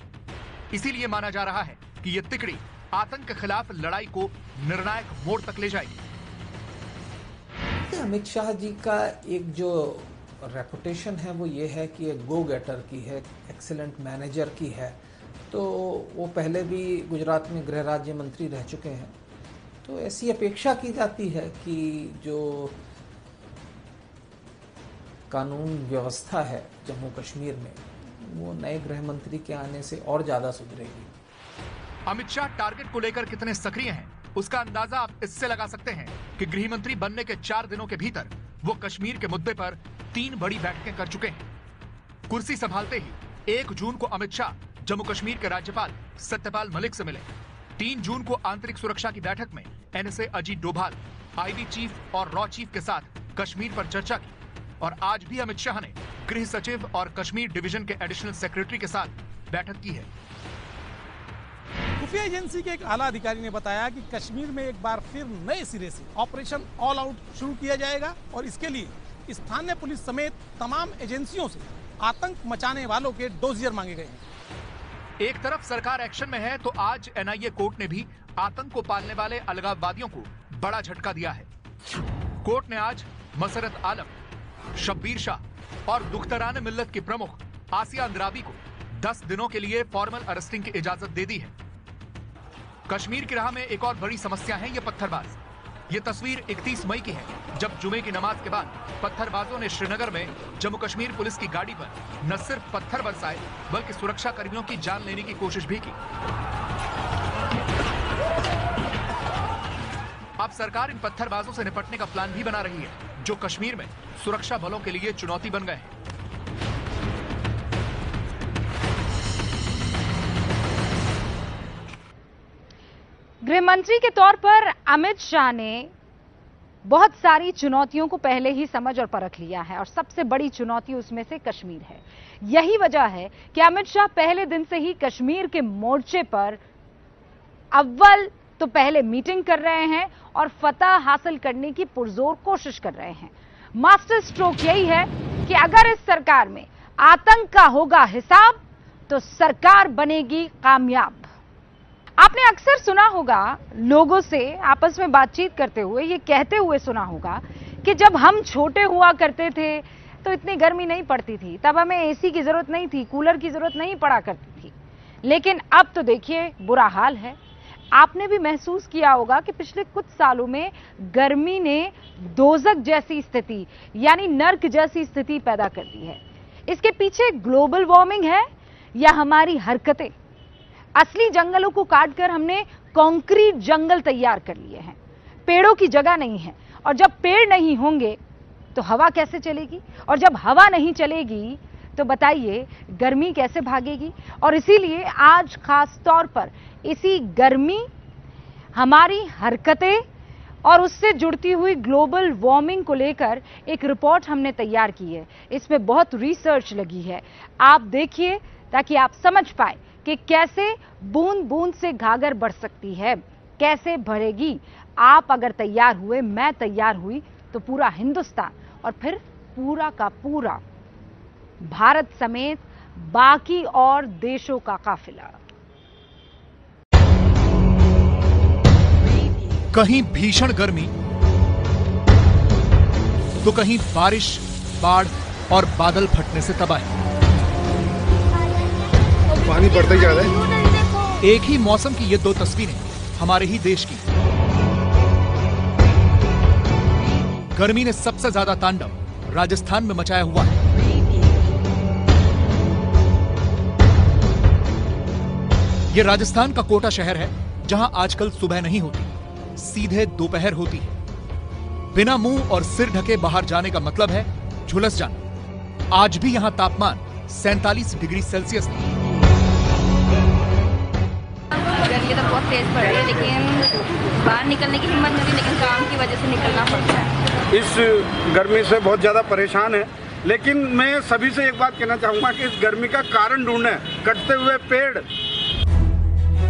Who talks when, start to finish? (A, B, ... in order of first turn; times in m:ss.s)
0:00.7-0:06.0 A
0:07.9-0:15.0 B
0:15.5-0:19.1 B
0:19.8-0:22.8 B
0:25.3-0:31.1 B
0:32.1-0:41.5 A
0:42.3-0:47.3 A
0:47.8-1:00.1 A
1:02.0-1:14.2 C
1:15.2-1:21.5 A
1:22.4-1:24.1 A
1:24.8-1:31.5 A
1:32.9-1:35.4 A
1:35.9-1:46.0 A
1:50.4-1:55.9 A
2:03.4-2:05.9 D
2:06.8-2:16.6 D
2:17.7-2:31.3 D
2:32.2-2:44.7 D
2:45.2-2:47.4 D
2:47.9-3:00.1 D
3:01.0-3:08.2 D
3:08.7-3:17.9 D
3:18.7-3:20.0 D
3:20.6-3:40.6 D
3:41.6-3:45.4 D
3:49.7-3:50.9 A
3:53.4-3:56.9 A
3:59.4-4:00.4 E
3:59.5-4:00.7 F
4:01.2-4:04.1 A
4:07.5-4:10.6 A
4:15.9-4:21.0 A
4:21.9-4:25.2 A
4:25.9-4:28.9 A
4:31.6-4:37.1 F
4:37.5-4:45.1 E